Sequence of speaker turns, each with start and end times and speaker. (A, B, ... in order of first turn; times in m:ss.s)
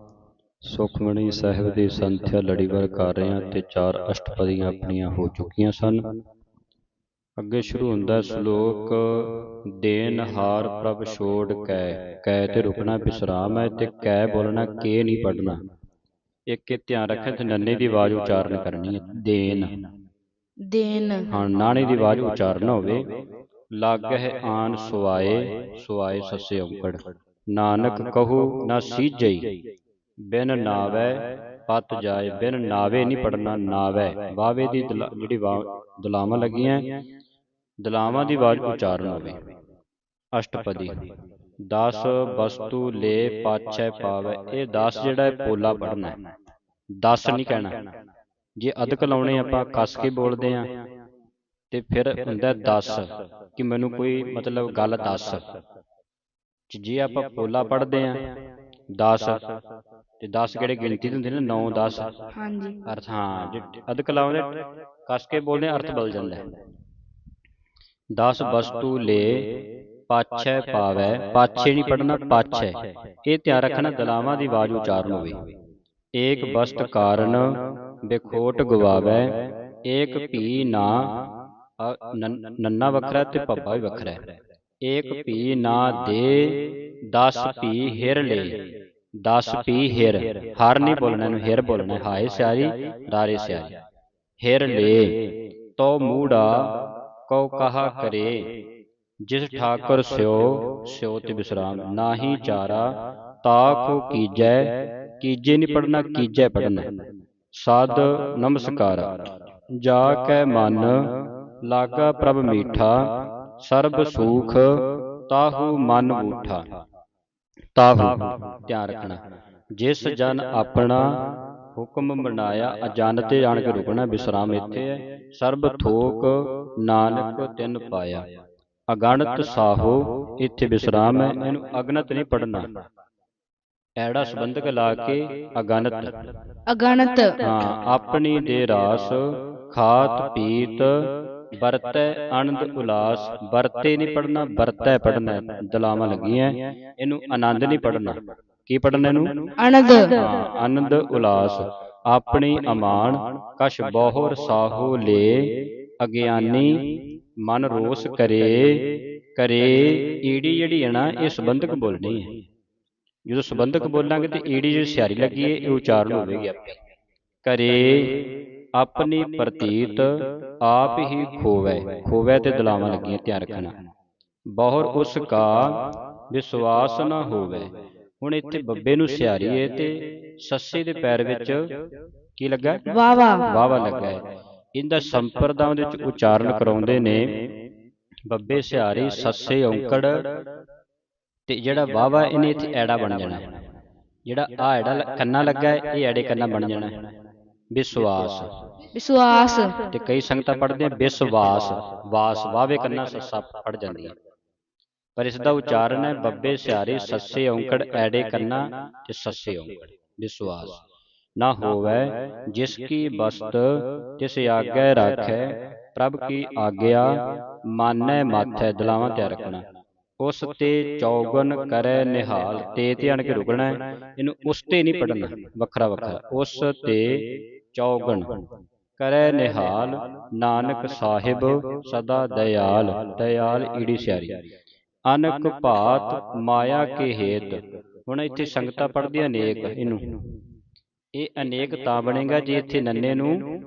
0:00.6-0:06.0 A
0:07.4-0:15.6 A
0:16.5-0:19.7 A
0:20.6-0:21.3 B
0:21.3-0:23.1 A
0:23.8-0:29.6 A
0:30.2-0:36.9 A
0:37.8-0:39.4 A
0:40.4-0:41.1 A
0:41.7-0:46.2 A
0:47.0-0:47.9 A
0:48.6-0:50.7 A
0:51.7-0:55.5 A
0:56.7-0:58.3 A
0:58.9-0:59.5 A
1:00.2-1:02.1 A
1:02.4-1:02.8 B
1:02.8-1:06.5 A
1:08.1-1:15.4 A
1:16.2-1:21.3 A
1:21.8-1:24.3 A
1:24.8-1:28.7 A
1:29.2-1:33.8 A
1:34.4-1:38.5 A
1:39.2-1:46.9 A
1:47.5-1:49.2 A
1:49.8-1:56.6 A
1:57.8-1:59.2 A
1:59.8-2:01.2 A
2:01.7-2:08.3 A
2:08.9-2:12.8 A
2:14.0-2:16.2 A
2:16.7-2:17.4 B
2:17.4-2:29.5 A
2:29.6-2:30.2 B
2:30.1-2:42.4 A
2:43.3-2:46.8 A
2:47.4-2:53.8 A
2:54.5-3:01.7 A
3:02.4-3:02.9 A
3:02.9-3:03.5 B
3:03.4-3:07.5 A
3:08.3-3:10.3 A
3:11.5-3:13.5 A
3:14.3-3:17.0 A
3:17.7-3:18.5 A
3:19.0-3:19.8 B
3:19.9-3:24.2 A
3:25.2-3:30.8 A
3:31.4-3:39.6 A
3:40.2-3:48.4 A
3:49.0-3:54.4 A
3:55.1-4:00.2 A
4:01.2-4:03.4 A